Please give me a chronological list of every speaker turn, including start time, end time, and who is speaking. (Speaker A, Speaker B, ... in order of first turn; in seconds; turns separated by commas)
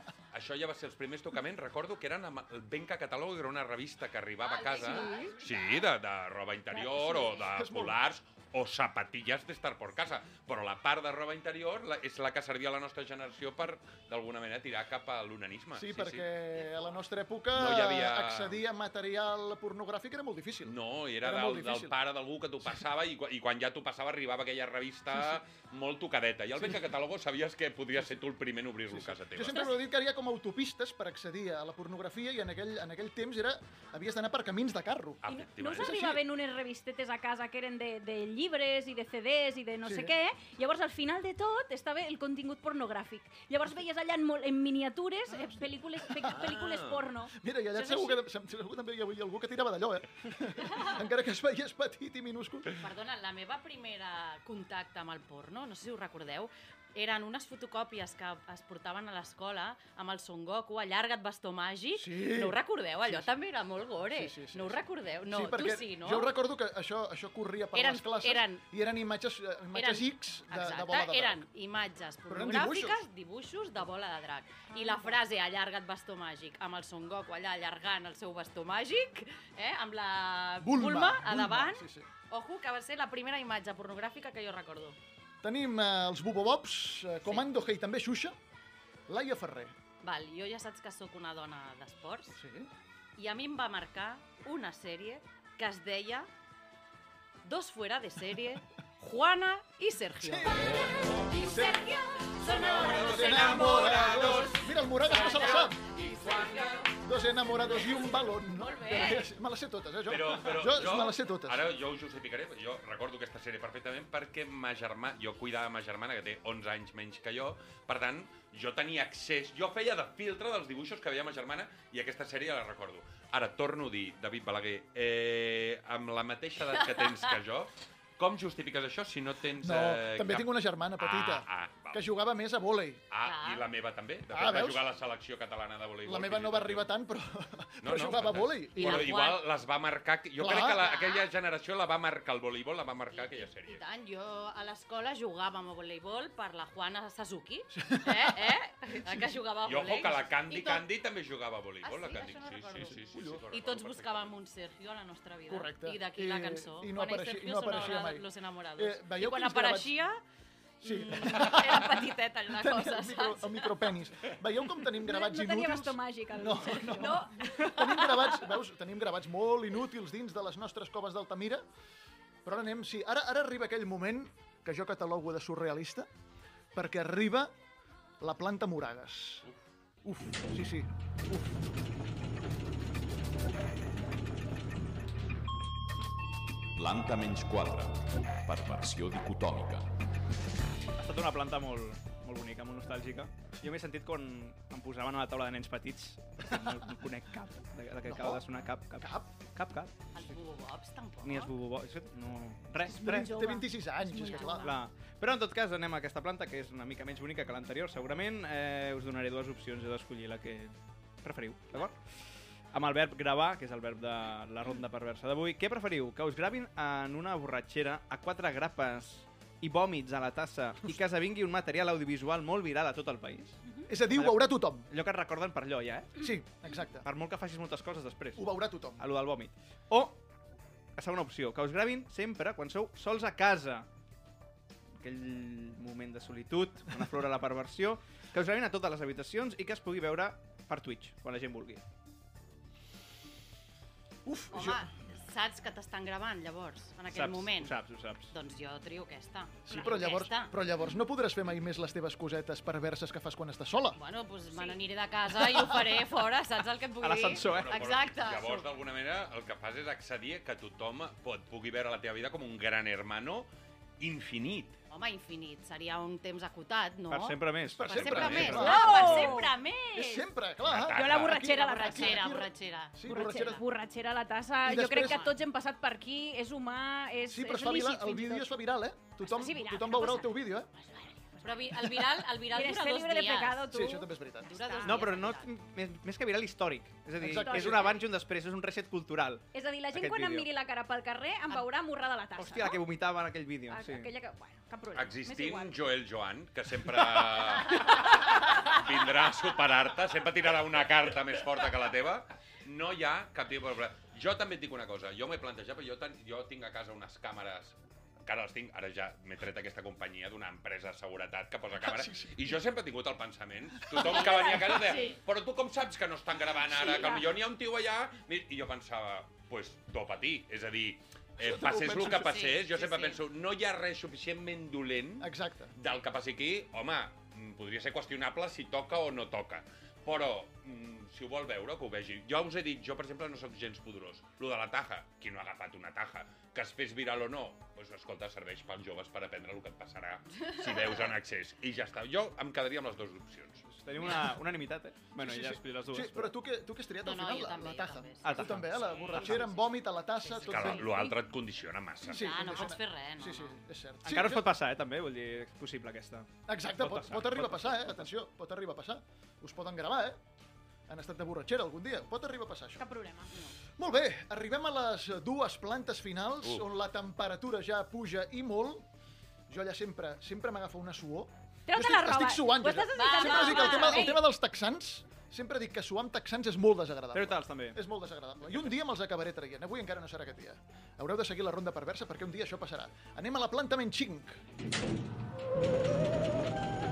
Speaker A: 0.3-16.2, Speaker B: 4.4-5.9, Speaker C: 4.8-5.3, Speaker D: 6.8-8.0, Speaker D: 15.8-21.9, Speaker A: 17.5-18.6, Speaker A: 20.6-29.7, Speaker D: 28.9-36.2, Speaker A: 35.2-36.0, Speaker C: 35.3-48.2, Speaker D: 39.8-40.1, Speaker D: 45.3-45.6, Speaker D: 46.2-46.6, Speaker A: 46.4-47.0, Speaker D: 47.3-52.8, Speaker B: 52.8-66.3, Speaker D: 62.0-63.3, Speaker D: 64.1-71.4, Speaker B: 67.7-68.6, Speaker B: 69.7-85.0, Speaker D: 72.3-73.0, Speaker D: 80.6-82.1, Speaker D: 85.4-88.3, Speaker D: 89.1-89.7, Speaker B: 90.0-92.4, Speaker D: 92.3-92.7, Speaker B: 93.2-96.3, Speaker B: 97.4-106.9, Speaker D: 100.2-101.9, Speaker D: 102.4-105.8, Speaker A: 102.7-106.9, Speaker D: 107.0-111.7, Speaker B: 108.5-109.3, Speaker A: 110.1-132.0, Speaker D: 129.6-133.0, Speaker A: 133.1-136.9, Speaker B: 133.2-133.6, Speaker D: 134.3-134.8, Speaker D: 136.1-139.1, Speaker A: 137.8-143.8, Speaker B: 138.7-139.4, Speaker D: 140.4-140.9, Speaker B: 140.8-141.3, Speaker B: 143.1-150.8, Speaker D: 147.7-149.3, Speaker A: 149.6-154.3, Speaker B: 151.8-153.0, Speaker D: 152.8-153.4, Speaker B: 153.5-160.2, Speaker D: 155.5-159.9, Speaker B: 160.8-163.7, Speaker D: 160.8-171.6, Speaker C: 165.0-167.4, Speaker B: 166.9-167.5, Speaker D: 172.4-176.1, Speaker D: 176.7-177.5, Speaker D: 178.2-179.4, Speaker D: 180.0-181.6, Speaker E: 186.8-189.9, Speaker F: 191.0-200.0, Speaker D: 198.1-198.4, Speaker D: 199.0-199.3, Speaker B: 200.1-201.5, Speaker F: 201.2-203.2, Speaker C: 202.8-204.8, Speaker D: 203.0-204.6, Speaker F: 204.6-212.0, Speaker F: 212.7-226.3, Speaker D: 223.9-224.9, Speaker D: 226.2-227.1, Speaker F: 227.0-230.2, Speaker D: 228.3-229.0, Speaker F: 231.0-233.9, Speaker F: 235.0-241.8, Speaker D: 244.2-244.9, Speaker B: 244.5-247.8, Speaker F: 247.1-248.3, Speaker B: 248.3-250.5, Speaker D: 249.7-254.0, Speaker B: 253.9-258.7, Speaker F: 257.0-257.9, Speaker A: 257.4-263.5, Speaker A: 264.0-264.8, Speaker B: 264.9-270.2, Speaker F: 267.1-268.6, Speaker D: 267.6-273.6, Speaker A: 267.9-268.6, Speaker C: 268.6-269.5, Speaker A: 270.6-271.3, Speaker C: 270.9-272.2, Speaker B: 271.4-273.6, Speaker C: 273.0-278.5, Speaker D: 274.6-275.2, Speaker B: 274.9-275.3, Speaker D: 277.3-280.7, Speaker C: 279.2-285.0, Speaker B: 281.4-283.7, Speaker D: 283.7-284.5, Speaker B: 284.4-285.5, Speaker F: 284.8-290.5, Speaker D: 287.2-287.9, Speaker C: 287.4-288.0, Speaker C: 289.5-292.8, Speaker F: 292.4-294.1, Speaker C: 293.7-295.7, Speaker A: 294.9-343.6, Speaker D: 311.8-312.6, Speaker D: 313.9-314.7, Speaker C: 314.1-315.1, Speaker B: 314.8-315.1, Speaker B: 316.8-317.2, Speaker D: 321.4-322.4, Speaker B: 322.2-323.2, Speaker D: 325.2-325.7, Speaker F: 343.7-346.3, Speaker D: 345.2-350.9, Speaker B: 347.0-351.1, Speaker F: 348.2-349.5, Speaker A: 348.8-349.1, Speaker A: 350.4-352.4, Speaker B: 352.0-353.6, Speaker D: 352.0-354.5, Speaker F: 354.0-358.1, Speaker D: 356.5-360.2, Speaker D: 360.9-362.9, Speaker C: 362.8-363.5, Speaker D: 363.8-368.8, Speaker D: 369.5-384.4, Speaker C: 371.7-374.2, Speaker B: 372.9-374.2, Speaker F: 377.1-377.8